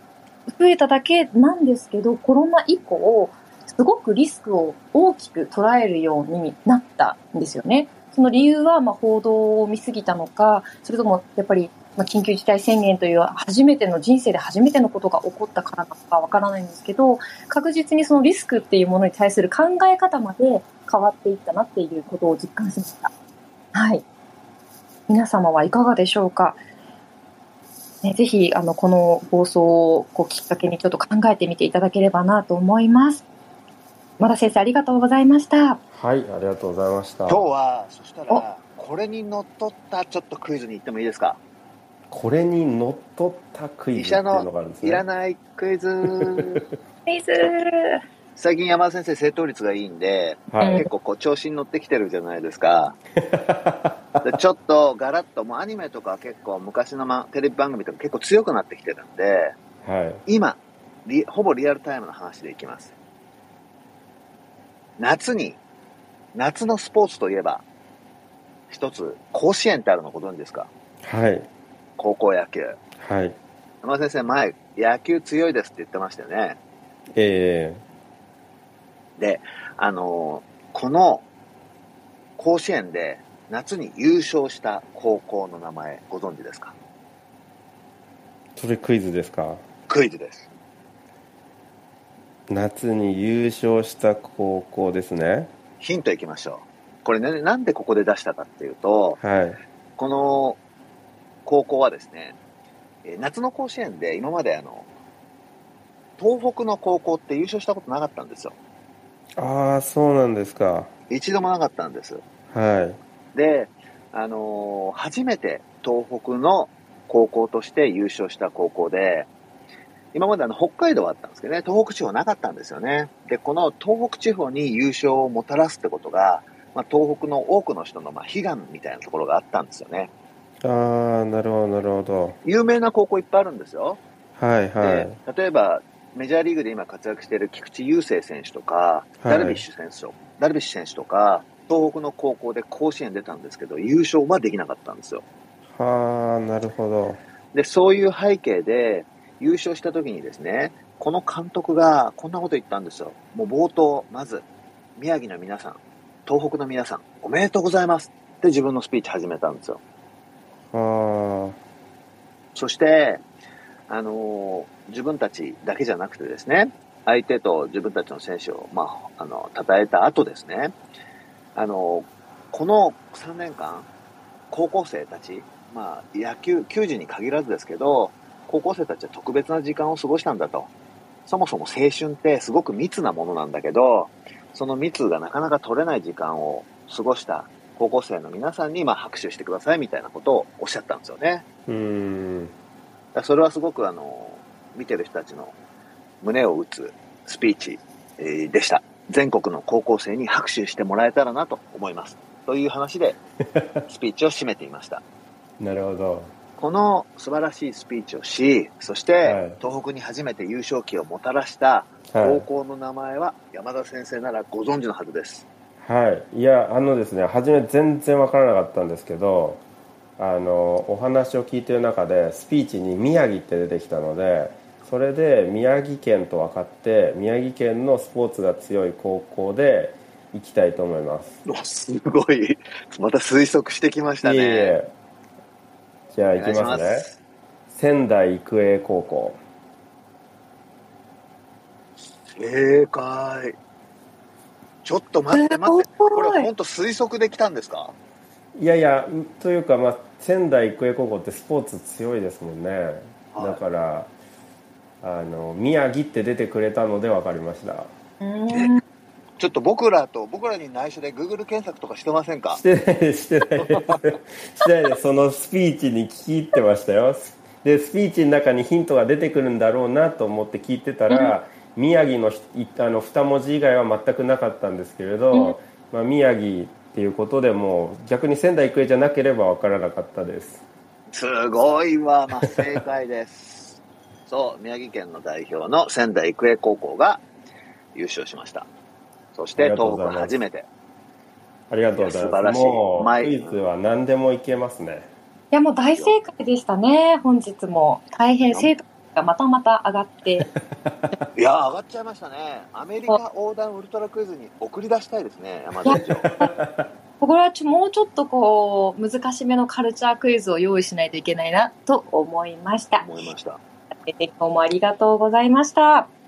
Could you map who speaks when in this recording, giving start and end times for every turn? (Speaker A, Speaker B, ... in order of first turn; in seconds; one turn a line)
Speaker A: 0.5-23.1
Speaker A: 23.7-24.0
Speaker A: 25.1-26.6
Speaker A: 28.0-33.2
Speaker A: 34.2-35.8
Speaker B: 35.9-37.4
Speaker C: 37.3-41.4
Speaker B: 42.1-45.0
Speaker C: 44.0-46.6
Speaker A: 47.1-48.0
Speaker C: 48.4-53.0
Speaker B: 50.5-50.9
Speaker A: 50.6-50.9
Speaker B: 53.2-54.2
Speaker C: 54.2-59.5
Speaker B: 59.8-60.2
Speaker C: 60.3-62.9
Speaker C: 65.0-65.6
Speaker C: 66.3-67.6
Speaker C: 68.7-70.7
Speaker B: 71.0-71.5
Speaker C: 72.0-72.8
Speaker B: 73.0-73.4
Speaker C: 73.8-76.6
Speaker B: 77.2-77.8
Speaker C: 79.2-81.2
Speaker C: 82.4-86.7
Speaker B: 88.6-89.6
Speaker C: 89.9-90.5
Speaker B: 92.5-95.5
Speaker C: 95.8-99.2
Speaker B: 99.2-99.6
Speaker C: 100.0-100.6
Speaker C: 101.5-102.4
Speaker C: 103.0-104.9
Speaker C: 106.2-108.6
Speaker B: 109.4-110.9
Speaker C: 111.1-112.2
Speaker B: 112.5-113.0
Speaker C: 113.3-119.3
Speaker C: 120.1-130.1
Speaker B: 130.6-132.4
Speaker C: 132.4-134.0
Speaker B: 134.4-135.2
Speaker C: 134.8-145.2
Speaker B: 139.2-139.6
Speaker B: 145.7-147.2
Speaker C: 147.5-154.4
Speaker C: 155.0-159.8
Speaker B: 160.7-161.6
Speaker C: 162.6-163.2
Speaker C: 163.9-170.7
Speaker C: 171.6-173.9
Speaker C: 174.5-180.7
Speaker C: 181.3-191.4
Speaker B: 191.7-192.5
Speaker C: 193.1-195.5
Speaker C: 196.2-203.2
Speaker B: 203.6-203.8
Speaker C: 203.9-205.0
Speaker B: 205.6-206.3
Speaker C: 206.6-215.5
Speaker B: 209.2-209.6
Speaker B: 212.1-212.5
Speaker B: 215.8-219.6
Speaker B: 220.2-231.4
Speaker C: 231.4-234.8
Speaker B: 234.2-234.9
Speaker B: 236.1-237.1
Speaker C: 236.4-237.2
Speaker B: 237.7-239.4
Speaker C: 242.4-243.6
Speaker C: 244.8-247.9
Speaker A: 245.3-246.5
Speaker B: 248.6-254.1
Speaker C: 253.3-253.6
Speaker B: 255.0-257.9
Speaker A: 258.2-258.8
Speaker C: 259.4-262.6
Speaker B: 262.5-280.6
Speaker C: 263.6-264.0
Speaker A: 271.1-271.4
Speaker C: 281.1-287.2
Speaker C: 287.9-288.7
Speaker C: 289.3-290.7
Speaker B: 289.6-290.4
Speaker B: 291.7-295.1
Speaker C: 292.0-293.5
Speaker A: 295.5-300.5
Speaker C: 301.4-306.3
Speaker A: 305.8-306.5
Speaker B: 306.0-306.8
Speaker A: 307.2-313.1
Speaker C: 313.0-313.6
Speaker A: 314.1-316.1